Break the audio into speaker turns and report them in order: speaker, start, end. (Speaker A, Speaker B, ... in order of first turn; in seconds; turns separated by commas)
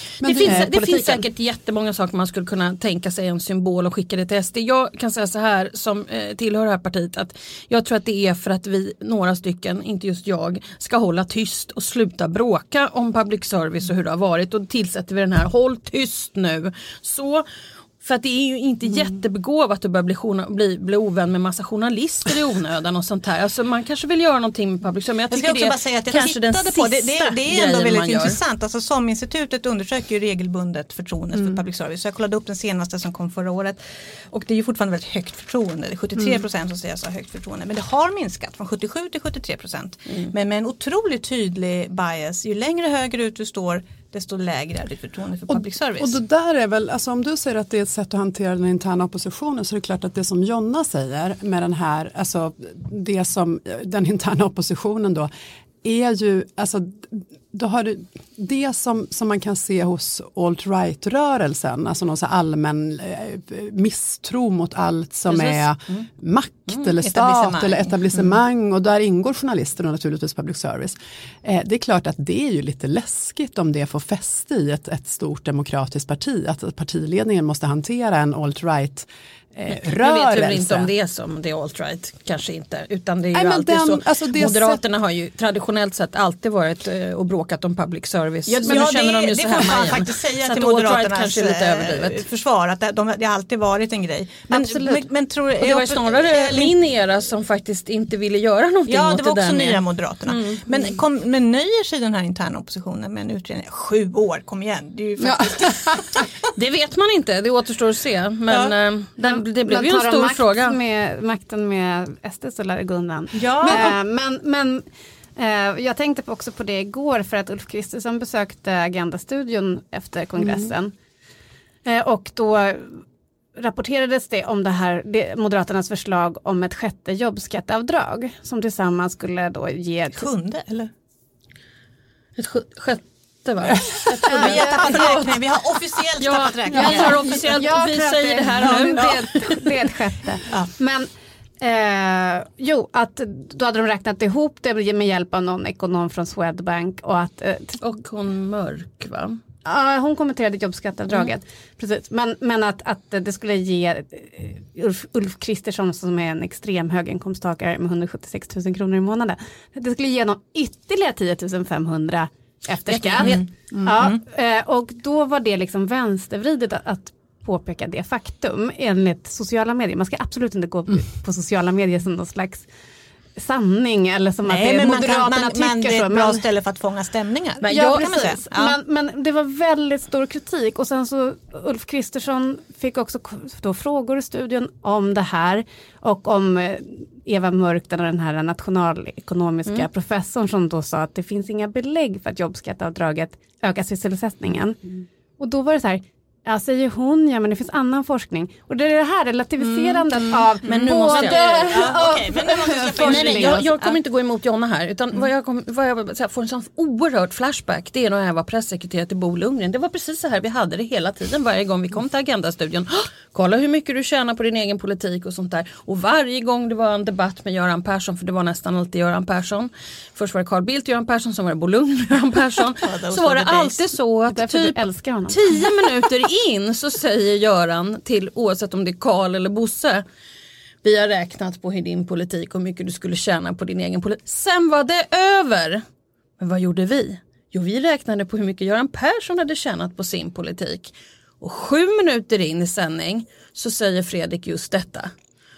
Speaker A: 0.2-1.2, Speaker B: 0.2-17.4, Speaker B: 18.0-28.4, Speaker C: 25.3-46.2, Speaker A: 45.5-55.3, Speaker A: 55.8-80.9, Speaker C: 65.3-65.7, Speaker C: 66.8-68.4, Speaker B: 79.7-92.2, Speaker A: 83.3-84.8, Speaker C: 88.5-96.7, Speaker B: 94.5-95.0, Speaker B: 95.6-100.9, Speaker C: 98.9-106.2, Speaker A: 105.2-106.2, Speaker B: 106.5-110.8, Speaker D: 109.2-114.8, Speaker C: 113.3-114.0, Speaker A: 113.6-113.9, Speaker D: 115.3-120.9, Speaker A: 120.4-120.7, Speaker D: 121.8-123.0, Speaker D: 123.6-130.3, Speaker C: 130.1-130.9, Speaker B: 132.4-135.4, Speaker A: 133.7-134.3, Speaker C: 134.2-137.4, Speaker B: 136.2-139.2, Speaker D: 136.7-141.1, Speaker C: 138.6-139.5, Speaker D: 141.6-147.8, Speaker B: 147.8-149.4, Speaker D: 149.6-172.7, Speaker C: 162.9-164.2, Speaker D: 173.4-176.4, Speaker C: 174.4-178.8, Speaker B: 177.6-178.3, Speaker D: 177.7-203.7, Speaker B: 199.6-202.1, Speaker C: 200.6-203.9, Speaker B: 203.0-230.0, Speaker C: 222.8-223.8, Speaker D: 224.3-225.7, Speaker B: 230.8-235.8, Speaker B: 236.4-245.1